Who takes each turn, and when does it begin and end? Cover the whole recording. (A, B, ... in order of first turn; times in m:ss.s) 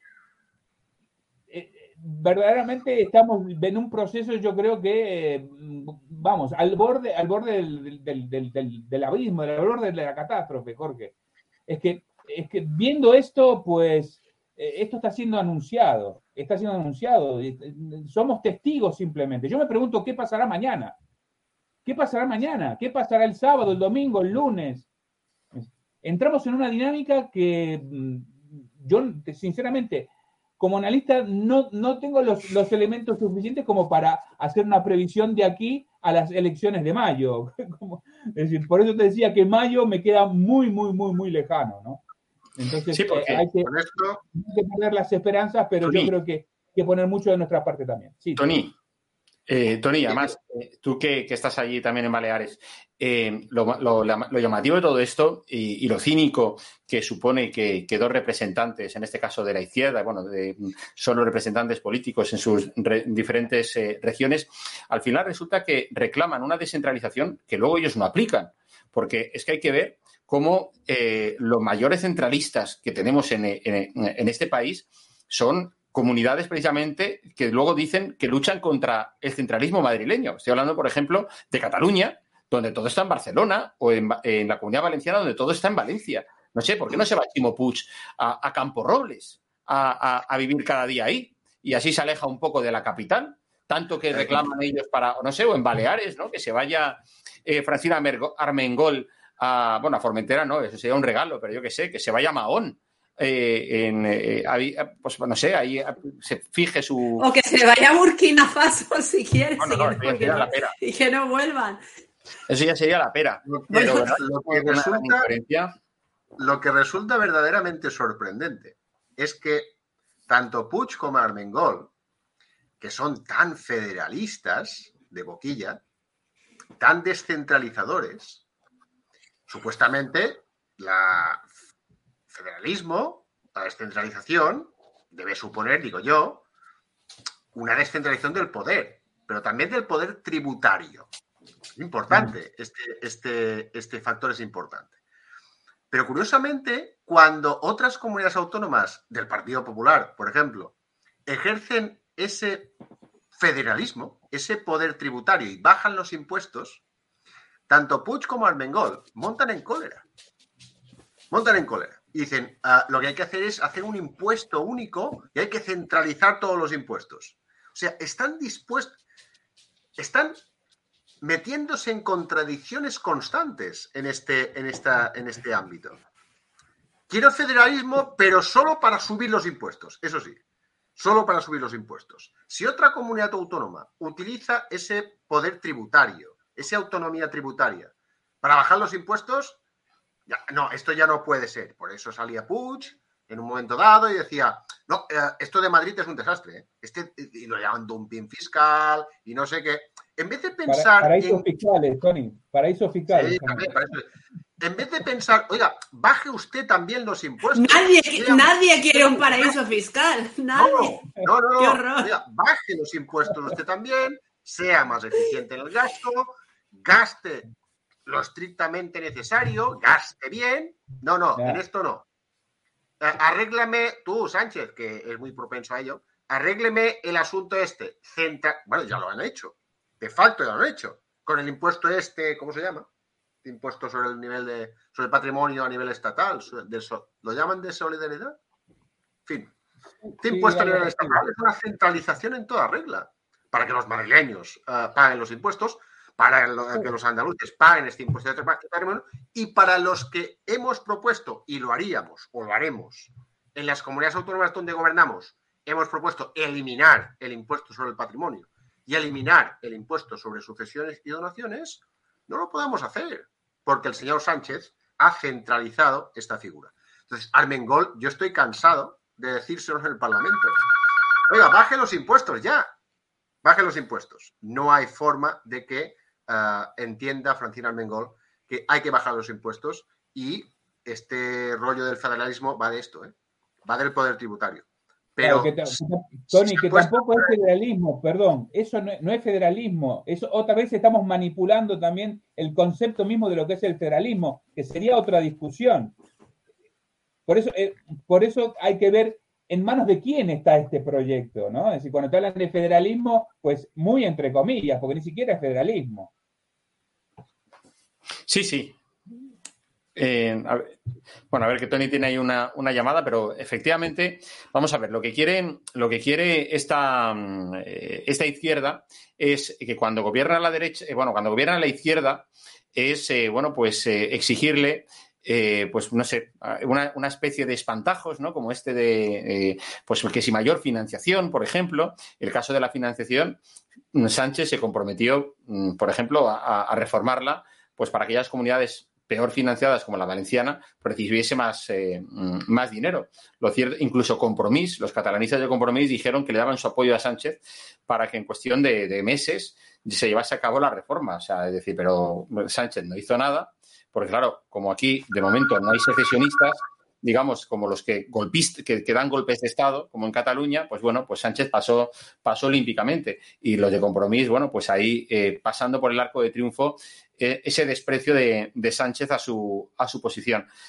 0:01.5-0:11.1 A
0:11.7-0:21.0 A
0:21.8-0:24.9 A
0:25.5-0:42.0 A
0:42.6-0:43.7 A
0:42.9-0:43.4 B
0:43.6-0:44.2 C
0:44.3-0:48.6 A
0:45.8-0:46.1 B
0:48.4-0:48.7 B
0:49.5-1:47.3 B
1:34.1-1:34.4 C
1:47.2-1:51.8 D
1:49.6-1:50.7 B
1:52.5-1:55.7 B
1:53.5-1:55.3 C
1:56.4-1:59.7 C
2:00.3-2:01.9 C
2:02.8-2:05.8 C
2:06.8-2:08.4 C
2:09.5-2:11.5 C
2:12.3-2:16.4 C
2:17.5-2:21.1 C
2:21.8-2:25.0 C
2:25.9-2:30.7 C
2:31.3-2:32.7 C
2:33.4-2:36.8 C
2:37.7-2:40.0 C
2:41.3-2:49.0 C
2:50.0-2:50.4 C
2:51.2-2:56.0 C
2:57.1-3:00.4 C
3:01.0-3:09.6 C
3:10.3-3:21.4 C
3:20.7-3:23.7 A
3:23.1-3:24.1 C
3:24.6-3:28.5 C
3:27.6-3:31.1 D
3:30.6-3:37.4 C
3:31.6-3:32.1 D
3:38.1-3:42.1 C
3:43.0-3:52.9 C
3:53.4-3:58.4 C
3:59.3-3:59.5 C
4:00.1-4:01.2 A
4:00.2-4:30.6 C
4:31.3-4:32.7 C
4:33.4-4:43.1 C
4:43.6-4:44.7 C
4:45.2-4:45.8 C
4:45.2-4:56.0 A
4:46.3-4:47.3 C
4:57.3-5:06.1 A
5:08.3-5:08.8 B
5:10.0-5:10.7 B
5:11.3-5:33.4 B
5:33.9-6:10.5 B